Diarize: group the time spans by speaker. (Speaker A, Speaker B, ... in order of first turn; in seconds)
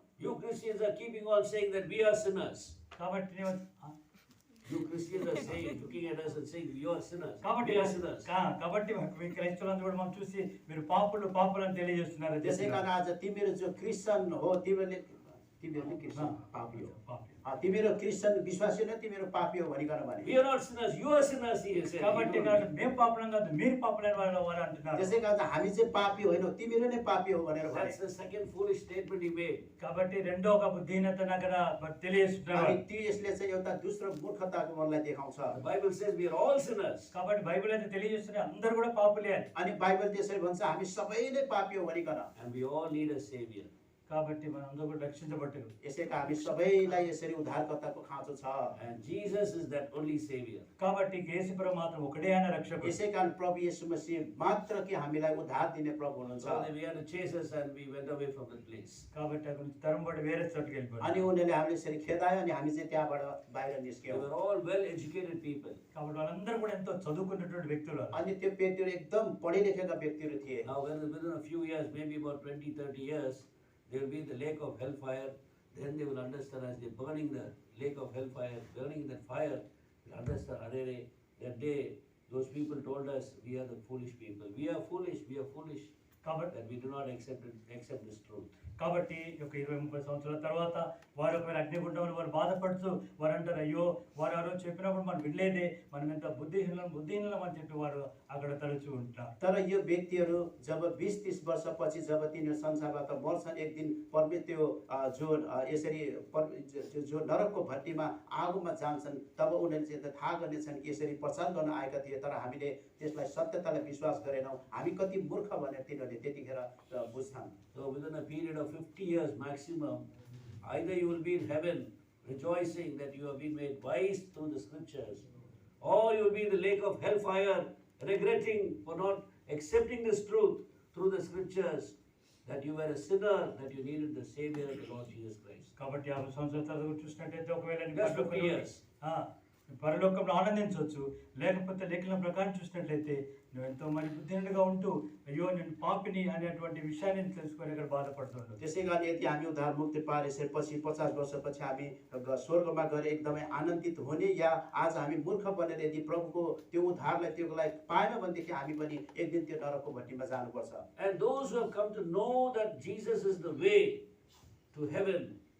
Speaker A: 0.2-2.8, 4.7-8.3, 20.2-22.7, 27.6-29.6, 35.5-37.1, 42.4-43.7, 48.8-50.7, 56.4-59.1, 64.1-65.8, 70.7-85.9, 86.5-88.5, 117.7-120.0, 120.6-125.2, 125.8-135.7, 137.9-138.8, 161.0-164.0, 164.7-165.3
Speaker B: 3.0-3.9, 7.4-12.8, 16.9-17.4, 22.0-25.2, 29.8-32.8, 37.1-39.5, 44.1-45.7, 50.8-53.0, 59.1-61.2, 65.9-68.2, 86.2-86.5, 88.8-99.3, 135.8-148.6
Speaker C: 12.4-16.9, 17.4-20.3, 24.9-27.9, 32.5-35.6, 39.5-42.3, 45.8-48.8, 52.8-56.7, 61.0-64.2, 68.1-70.7, 99.4-117.5, 148.6-160.8